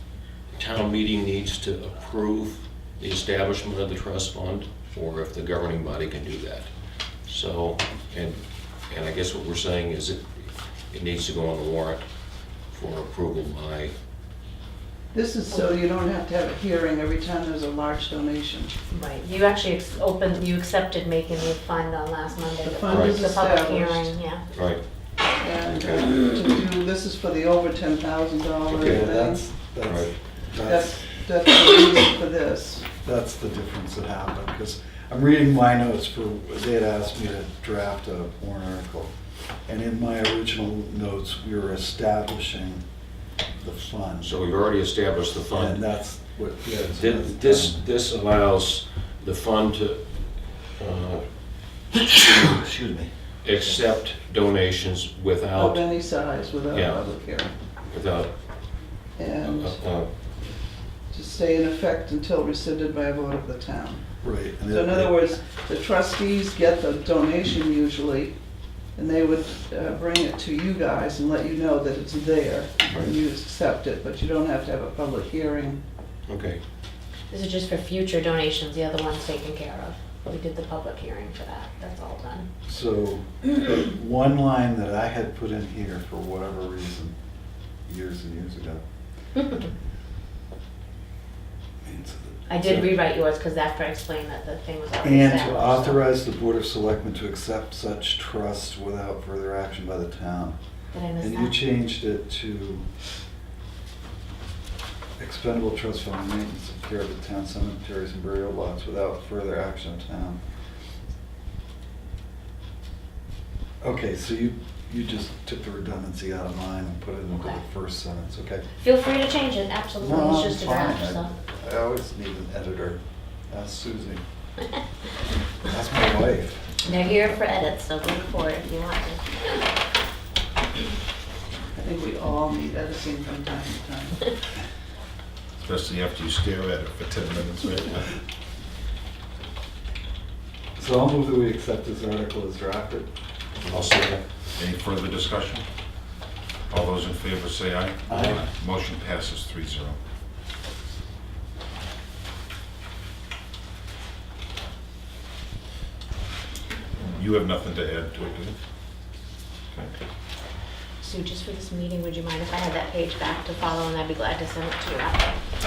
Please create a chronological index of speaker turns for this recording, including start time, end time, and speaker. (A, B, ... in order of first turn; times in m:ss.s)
0:00.6-0:06.7 A
0:07.2-0:10.2 A
0:10.9-0:12.1 A
0:12.7-0:13.9 A
0:15.1-0:18.7 B
0:18.9-0:24.4 C
0:22.6-0:24.1 B
0:22.9-0:23.2 A
0:24.5-0:24.8 A
0:25.4-0:29.4 B
0:25.6-0:26.0 A
0:28.7-0:29.1 A
0:28.7-0:31.2 D
0:29.8-0:30.1 A
0:30.6-0:32.8 B
0:33.0-0:39.1 D
0:39.6-0:42.8 D
0:43.6-0:44.4 D
0:44.2-0:45.8 A
0:45.5-0:47.8 D
0:46.8-0:51.6 A
0:52.1-0:53.1 E
0:52.2-0:52.6 A
0:53.4-0:55.8 A
0:55.6-0:57.5 B
0:56.7-0:57.0 A
0:57.9-0:58.3 A
0:59.2-0:59.8 B
0:59.4-1:00.1 A
1:01.1-1:04.0 B
1:04.2-1:05.2 D
1:04.7-1:08.3 B
1:09.0-1:15.7 B
1:16.3-1:16.6 A
1:17.3-1:22.5 C
1:22.7-1:27.1 D
1:27.9-1:28.8 D
1:31.8-1:32.9 D
1:32.5-1:36.0 C
1:35.0-1:40.6 D
1:40.9-1:41.6 C
1:41.2-1:42.9 D
1:45.2-1:50.4 D
1:53.8-1:58.6 D
1:58.8-2:01.3 C
2:00.0-2:04.2 D
2:05.6-2:06.6 D
2:06.8-2:09.4 C
2:11.8-2:14.2 B
2:15.6-2:18.1 E
2:20.8-2:23.1 D
2:23.6-2:24.2 A
2:24.6-2:25.6 E
2:26.7-2:30.0 E
2:28.1-2:28.4 D
2:37.0-2:38.6 E
2:41.0-2:45.4 C